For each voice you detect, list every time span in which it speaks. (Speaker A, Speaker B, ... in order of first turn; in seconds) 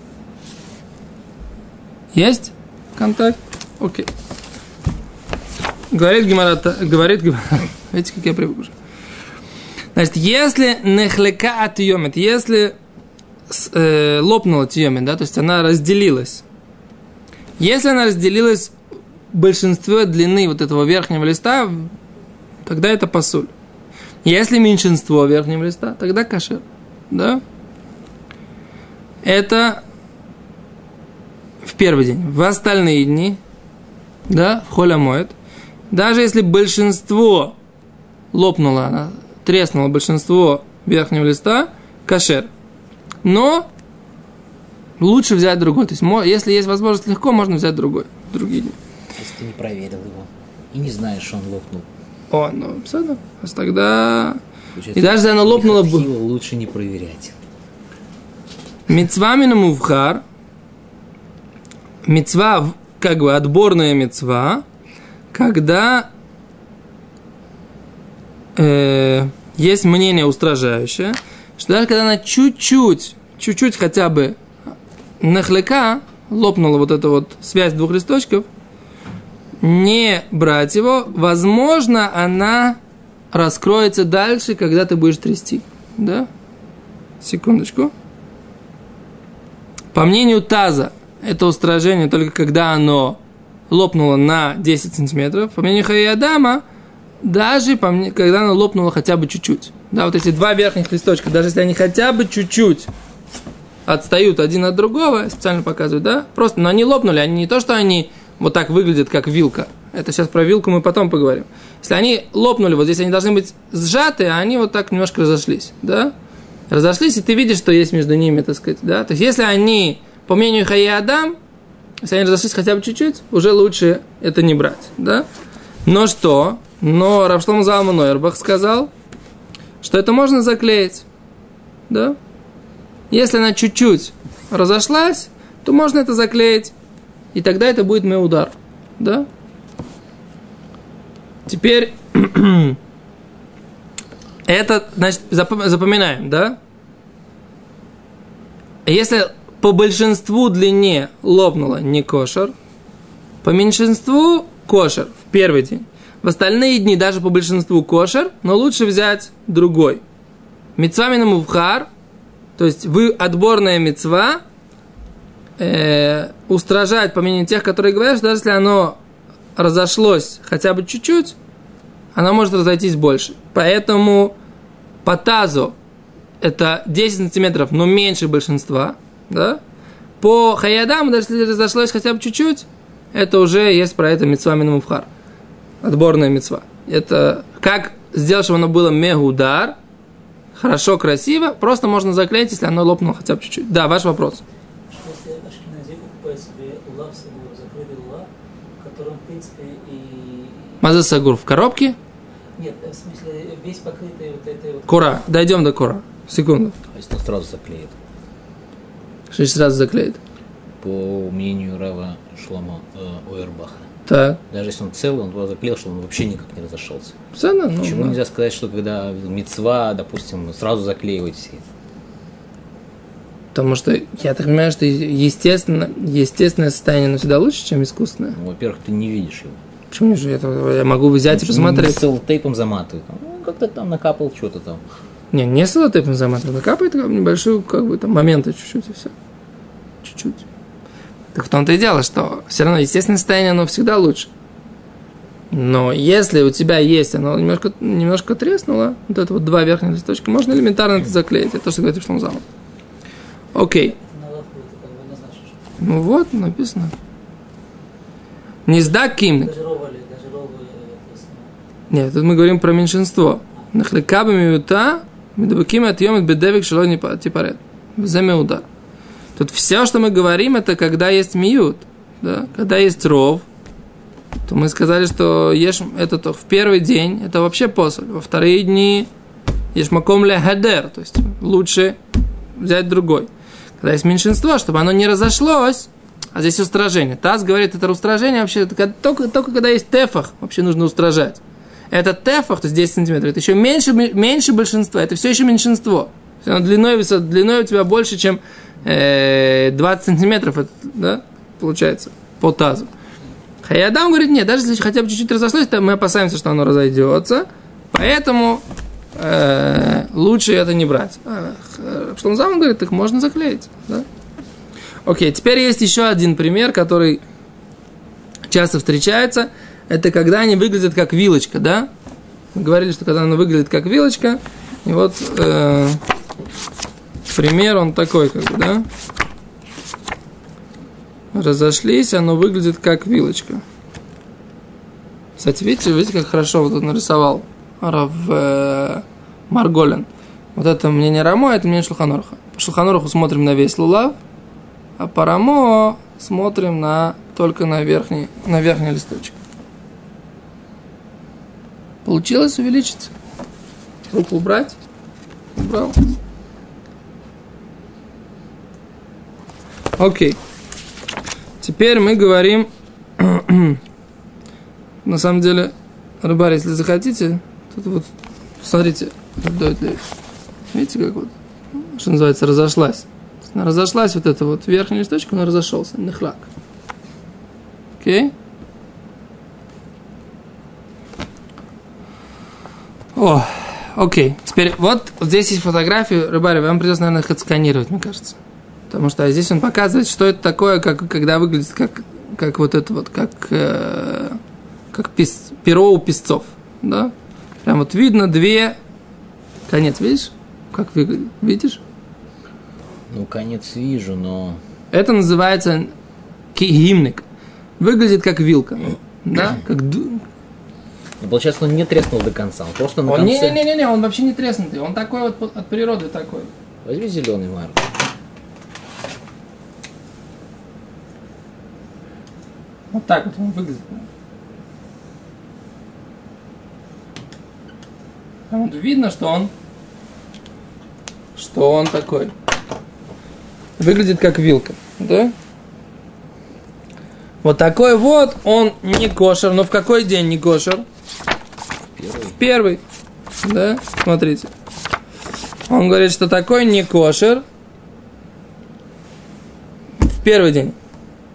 Speaker A: 2.1-4.1, 5.9-8.7, 9.9-12.8, 13.5-16.4, 17.6-18.7, 19.3-21.9, 22.6-23.5, 24.2-27.4, 29.2-29.8, 31.6-33.4, 34.3-35.3, 35.9-37.5, 38.3-42.5, 43.2-43.7, 45.0-48.8, 52.3-54.4, 54.9-56.0, 58.9-60.2, 62.0-64.7, 65.3-66.1, 68.6-74.4, 75.2-78.5, 79.6-82.8, 83.3-86.3, 87.2-87.9, 89.9-93.2, 93.7-96.6, 97.2-102.9, 103.9-116.1, 116.7-121.4, 122.0-125.2, 125.8-128.9, 129.8-131.1, 131.9-132.2, 133.1-136.7, 137.3-139.3, 141.5-142.8, 144.5-146.6, 148.8-152.6, 153.4-160.0, 160.8-161.9, 162.6-164.4, 165.6-169.0, 169.6-171.3, 172.1-174.3, 175.1-175.8, 176.4-179.6, 180.2-185.1, 185.8-189.8, 190.6-194.4, 200.8-202.0, 204.9-206.8, 209.3-210.2, 214.1-214.4, 217.3-218.2, 223.5-228.4, 229.9-232.0, 235.3-239.1, 240.0-240.4, 241.3-244.3, 245.5-252.4, 253.5-253.9, 255.8-256.9, 258.7-259.5, 261.9-268.7, 269.4-273.4, 274.5-279.1, 279.7-282.0, 282.6-283.3, 283.8-302.9, 303.6-308.6, 309.2-314.1, 315.1-317.2, 318.5-321.9, 322.6-326.0, 327.3-328.9, 331.3-333.6, 335.4-344.2, 345.0-349.4, 352.1-353.1, 354.1-354.8, 355.6-356.0, 360.0-360.4, 361.6-363.8, 365.1-368.1, 368.6-370.0, 370.7-376.5, 378.0-378.3, 383.1-388.4, 388.9-394.4, 394.9-397.1, 397.6-398.8, 399.7-401.8, 404.9-405.9, 406.5-407.2, 407.8-410.2, 413.1-416.5, 422.9-424.1, 428.5-429.5, 431.4-432.3, 433.8-435.3, 437.4-440.8, 442.4-442.8, 443.4-444.5, 445.7-447.4, 450.0-450.8
Speaker B: 49.2-51.9, 54.8-57.4, 206.9-207.9, 210.8-213.9, 214.5-217.1, 217.8-221.7, 228.3-229.6, 231.3-234.8, 403.1-404.6, 411.2-413.6, 416.9-417.9, 442.0-442.4
Speaker C: 194.9-200.8, 202.6-205.3, 253.7-255.6, 259.2-261.5